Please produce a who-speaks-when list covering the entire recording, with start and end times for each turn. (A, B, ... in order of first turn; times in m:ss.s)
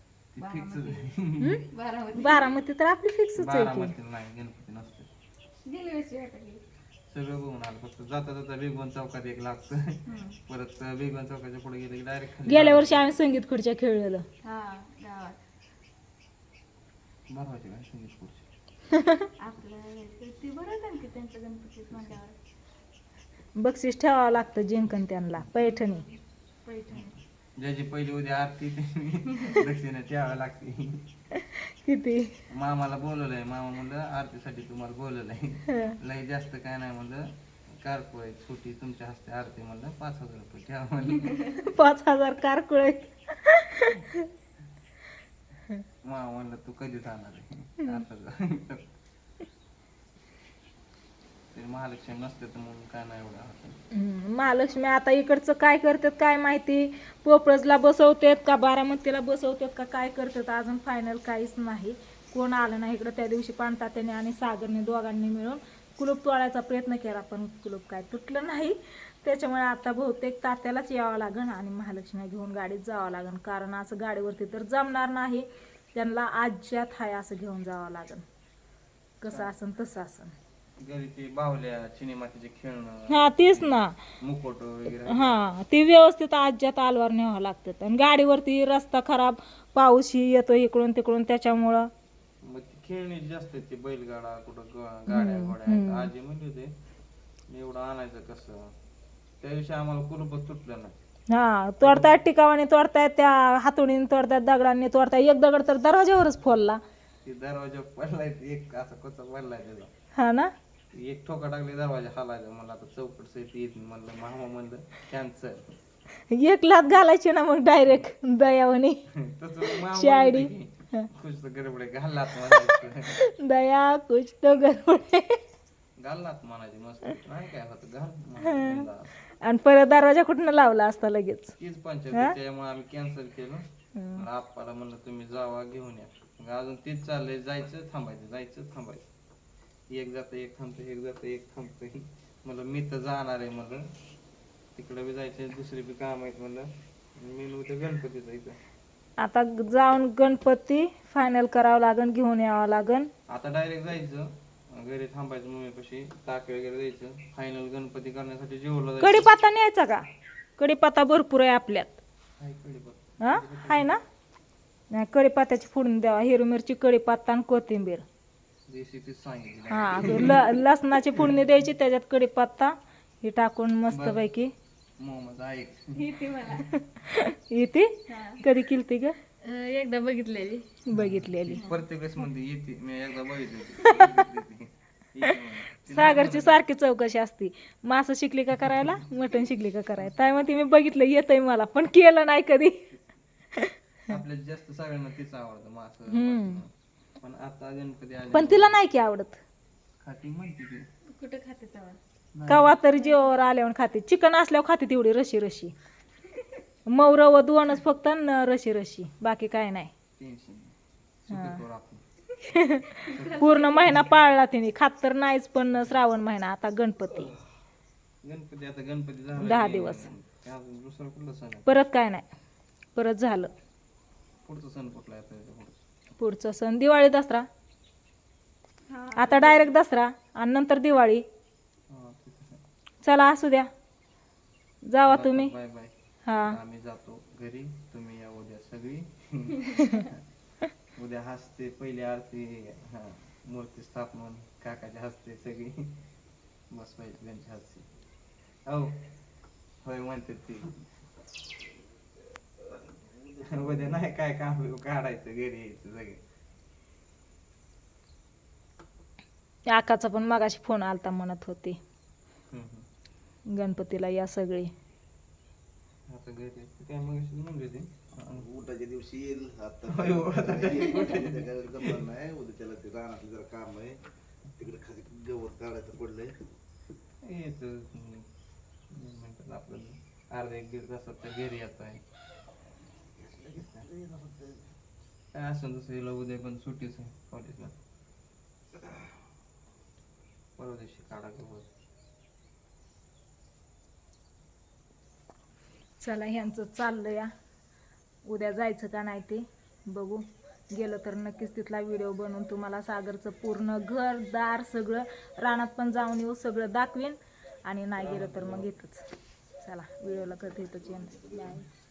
0:00.3-0:01.6 A
0:00.4-0:01.0 B
0:01.7-0:02.6 B
0:02.2-0:03.9 C
0:03.4-0:05.1 A
0:05.6-0:06.6 B
0:07.1-0:13.1 A
0:10.1-0:10.4 B
0:12.4-0:14.2 C
0:14.4-0:15.4 B
0:17.3-0:18.4 A
0:19.4-0:22.4 B
0:23.6-0:26.0 C
0:25.6-0:26.1 B
0:26.6-0:27.1 B
0:27.6-0:31.0 A
0:31.5-0:32.3 C
0:32.5-0:41.4 A
0:41.6-0:44.2 C
0:46.0-0:48.9 A
0:51.5-0:53.8 A
0:53.9-1:18.2 C
1:19.2-1:20.3 C
1:20.8-1:25.4 A
1:23.1-1:24.0 C
1:25.1-1:31.9 C
1:32.4-1:36.7 A
1:35.1-1:36.1 C
1:37.5-1:38.7 A
1:39.4-1:40.9 A
1:41.3-1:46.8 C
1:41.8-1:42.1 A
1:47.2-1:49.9 A
1:50.1-1:50.5 C
1:50.9-1:55.7 A
1:56.3-1:59.0 C
1:59.1-2:03.2 A
1:59.6-2:01.1 C
2:02.5-2:05.4 C
2:06.0-2:09.1 A
2:08.4-2:08.9 C
2:09.4-2:11.6 C
2:11.6-2:19.0 A
2:13.9-2:14.2 C
2:19.9-2:23.9 A
2:24.8-2:28.6 A
2:29.2-2:33.1 C
2:33.3-2:39.3 A
2:39.0-2:40.1 C
2:40.6-2:42.0 C
2:42.4-2:43.9 A
2:43.2-2:44.0 C
2:44.9-2:48.0 C
2:48.7-2:50.6 A
2:49.7-2:54.5 C
2:53.9-2:54.2 A
2:55.0-2:56.1 A
2:55.9-2:56.7 B
2:56.7-2:59.2 C
2:58.1-2:58.4 B
2:59.4-3:00.7 B
3:00.9-3:01.6 C
3:00.9-3:06.6 A
3:01.5-3:01.8 B
3:03.8-3:04.1 C
3:05.8-3:12.9 C
3:14.1-3:18.8 A
3:16.1-3:16.6 C
3:18.3-3:19.4 C
3:20.0-3:20.9 A
3:21.1-3:22.0 B
3:22.3-3:22.7 A
3:22.5-3:25.7 C
3:22.9-3:23.3 B
3:26.9-3:29.9 C
3:30.2-3:30.7 A
3:31.3-3:32.0 A
3:31.3-3:31.6 C
3:32.5-3:37.4 C
3:33.1-3:34.1 B
3:33.1-3:34.0 A
3:38.2-3:41.8 A
3:39.4-3:40.1 C
3:41.7-3:42.2 C
3:42.9-3:43.5 C
3:44.4-3:45.8 A
3:46.2-3:47.5 C
3:48.9-3:49.7 B
3:49.2-3:51.2 C
3:51.9-3:52.6 A
3:53.0-3:53.7 C
3:54.9-3:55.5 C
3:55.0-3:55.9 A
3:56.2-3:56.6 C
3:56.4-4:00.2 A
4:01.0-4:06.0 A
4:06.7-4:07.9 A
4:08.7-4:08.9 A
4:09.8-4:10.8 A
4:13.4-4:16.2 A
4:19.7-4:21.8 C
4:22.5-4:22.9 A
4:23.5-4:24.7 C
4:26.1-4:28.5 A
4:28.4-4:34.0 D
4:29.9-4:32.0 A
4:34.6-4:36.3 D
4:37.2-4:38.3 A
4:38.9-4:42.0 A
4:43.2-4:44.7 D
4:43.6-4:43.9 A
4:45.3-4:47.7 A
4:50.6-4:51.7 A
4:56.0-4:57.3 C
4:58.2-5:09.0 C
5:08.0-5:08.7 A
5:09.6-5:11.7 C